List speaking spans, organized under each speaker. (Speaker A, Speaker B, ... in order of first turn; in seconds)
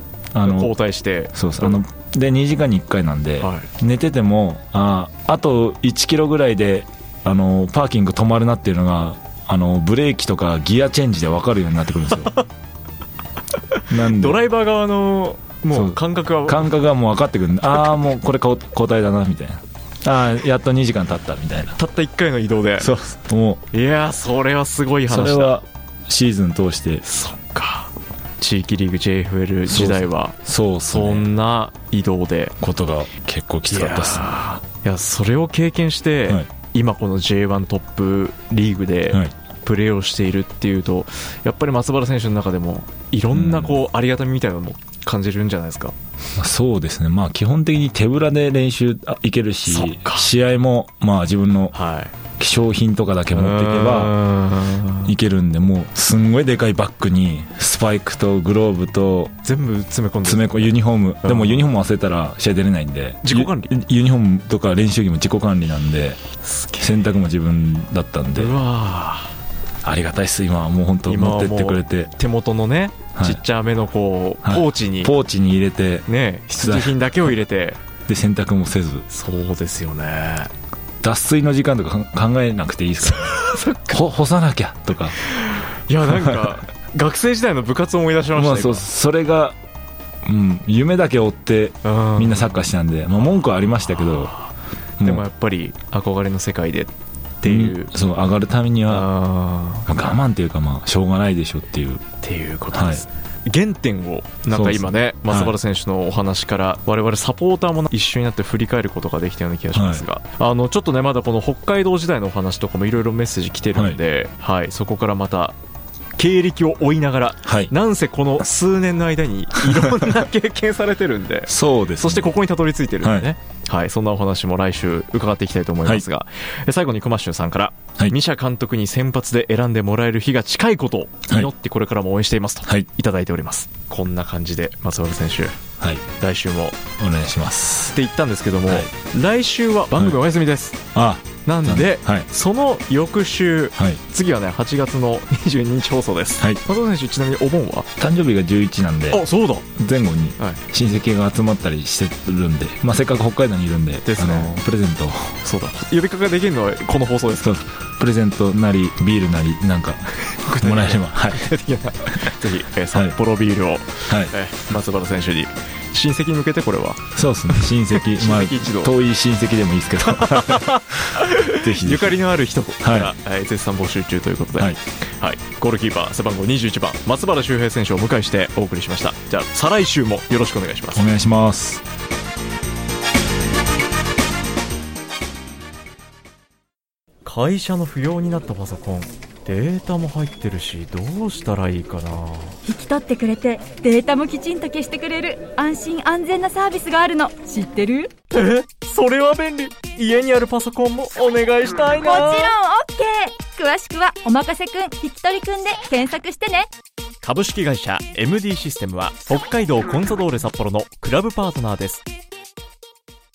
Speaker A: 0.3-0.8, 1.3-12.4, 13.9-14.4, 15.7-21.8, 22.8-23.6, 25.1-27.0, 29.7-31.3, 32.6-34.3, 43.3-43.8, 46.4-51.7, 52.4-54.1, 55.0-59.3, 60.2-66.2, 66.8-68.6, 69.8-72.1, 73.1-73.4, 74.4-77.2, 78.1-79.0, 81.0-85.2, 86.1-86.5, 88.3-89.6, 90.2-94.3, 95.0-95.2, 97.4-99.1, 99.9-102.0, 102.7-103.0, 104.5-105.5, 109.7-110.0, 113.7-114.0, 117.4-117.7, 121.5-122.4, 123.0-123.3, 135.8-136.0, 137.0-138.0, 140.9-142.3, 148.0-149.2, 149.7-155.4, 157.4-161.5, 164.1-164.3, 167.1-172.2, 172.8-173.1, 180.9-181.8
Speaker B: 0.4-1.8, 3.4-3.7, 13.9-16.7, 21.8-22.9, 23.7-25.6, 27.0-30.4, 30.9-32.6, 33.7-45.9, 49.6-50.3, 51.7-52.1, 53.3-55.1, 59.4-60.7, 61.2-61.6, 63.2-63.7, 66.4-67.1, 68.3-69.3, 71.0-75.1, 76.1-77.8, 79.1-80.5, 83.0-84.0, 85.2-88.8, 91.8-92.6, 94.0-94.4, 95.0-97.9, 98.9-99.9, 102.2-115.5, 116.2-135.6, 136.2-136.8, 137.9-140.8, 141.4-147.9, 149.1-149.7, 154.0-154.6, 155.4-157.5, 160.3-167.0, 167.9-168.9, 170.0-181.1, 187.2-192.6, 198.3-202.6, 207.2-212.0
Speaker C: 192.7-198.1, 202.0-206.7